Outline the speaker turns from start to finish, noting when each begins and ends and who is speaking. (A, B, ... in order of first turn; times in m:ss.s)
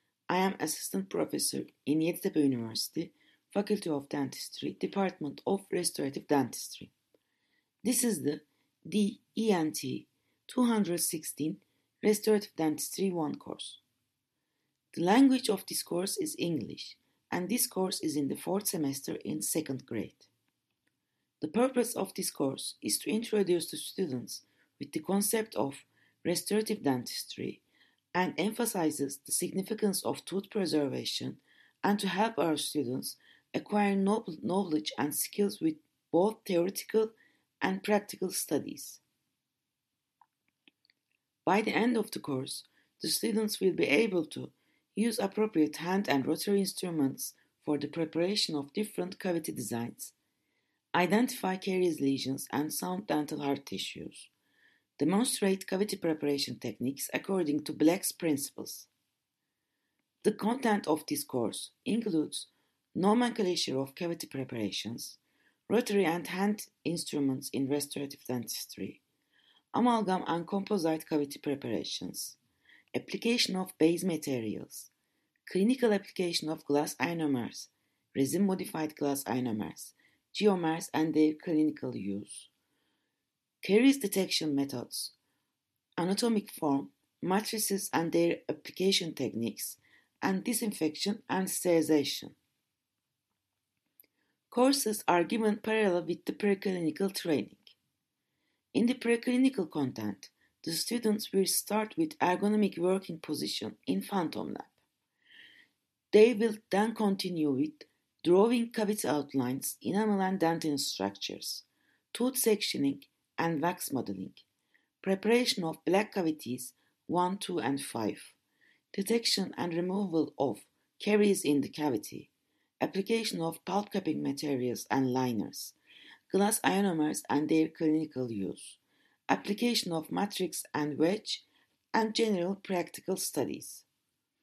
0:00.3-0:06.9 A
0:07.8-0:13.8 A
0:14.9-0:20.3 A
0:21.4-0:27.6 A
0:28.1-0:39.0 A
0:41.4-0:50.2 A
0:50.9-0:54.3 A
0:55.0-0:58.9 A
1:00.2-1:09.0 A
1:09.7-1:12.4 A
1:12.9-1:14.9 A
1:15.5-1:22.5 A
1:23.6-1:25.2 A
1:26.0-1:32.4 A
1:34.5-1:37.8 A
1:38.7-1:44.8 A
1:46.1-1:54.4 A
1:55.0-1:58.4 A
1:58.9-2:05.8 A
2:06.3-2:13.9 A